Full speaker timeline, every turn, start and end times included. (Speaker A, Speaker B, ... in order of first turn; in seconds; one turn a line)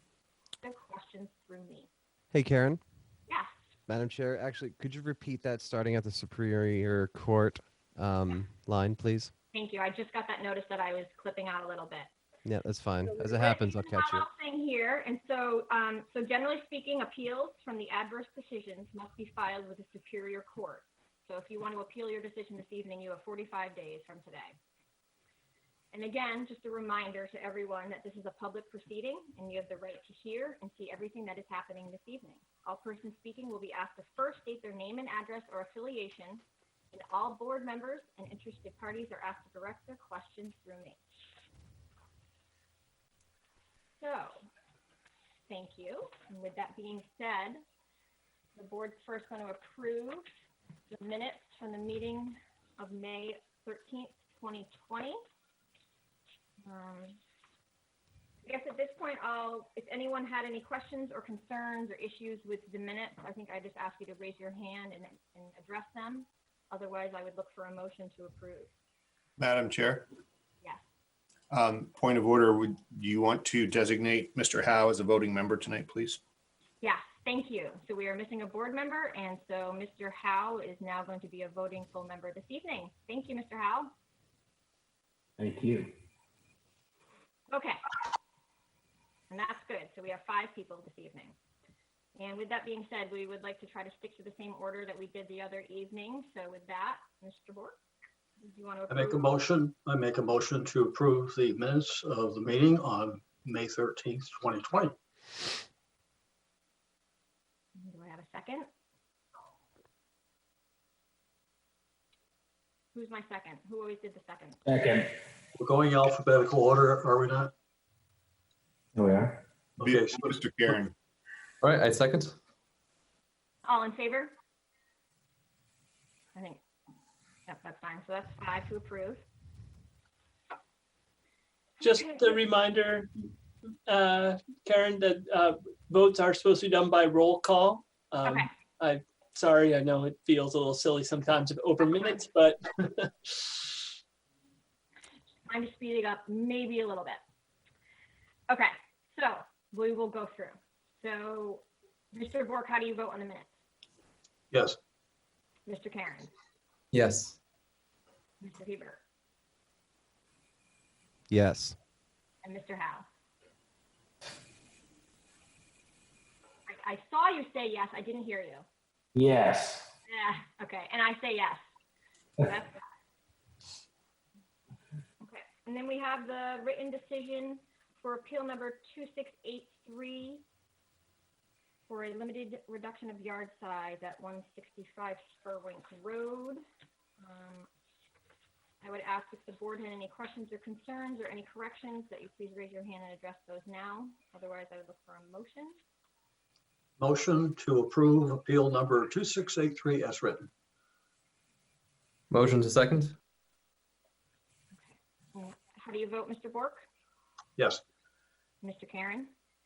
Speaker A: 0.6-1.9
Speaker B: 2.3-2.8
Speaker B: 3.9-9.3
Speaker A: 9.5-12.1
Speaker B: 12.4-14.2
Speaker A: 13.1-24.6
Speaker A: 25.9-41.0
Speaker A: 44.0-44.4
Speaker A: 45.5-47.6
Speaker A: 48.5-50.2
Speaker A: 50.9-55.2
Speaker A: 56.6-57.2
Speaker A: 58.4-68.7
Speaker C: 69.4-70.1
Speaker C: 71.5-76.2
Speaker A: 76.8-83.9
Speaker D: 85.4-85.9
Speaker A: 87.5-87.8
Speaker A: 89.3-91.3
Speaker A: 92.2-97.8
Speaker A: 98.4-99.3
Speaker E: 98.9-105.0
Speaker A: 107.7-108.7
Speaker A: 112.9-114.6
Speaker D: 114.6-115.1
Speaker E: 115.6-117.5
Speaker D: 118.9-119.4
Speaker E: 119.8-120.7
Speaker C: 119.8-120.9
Speaker F: 121.6-122.3
Speaker A: 123.6-124.3
Speaker A: 126.3-126.6
Speaker A: 127.5-129.2
Speaker G: 131.8-133.1
Speaker G: 133.9-143.8
Speaker A: 138.2-138.5
Speaker A: 145.5-147.2
Speaker A: 148.5-153.5
Speaker E: 154.5-154.8
Speaker A: 155.7-156.3
Speaker F: 156.9-157.4
Speaker A: 158.4-159.0
Speaker B: 161.3-161.8
Speaker A: 162.4-163.0
Speaker A: 166.7-168.6
Speaker D: 169.1-169.9
Speaker A: 170.1-171.6
Speaker A: 172.4-172.8
Speaker A: 175.2-180.4
Speaker A: 181.9-186.6
Speaker A: 187.2-187.7
Speaker A: 188.8-195.8
Speaker E: 197.0-200.5
Speaker F: 202.3-203.1
Speaker A: 204.8-206.8
Speaker E: 207.6-207.8
Speaker A: 208.6-209.3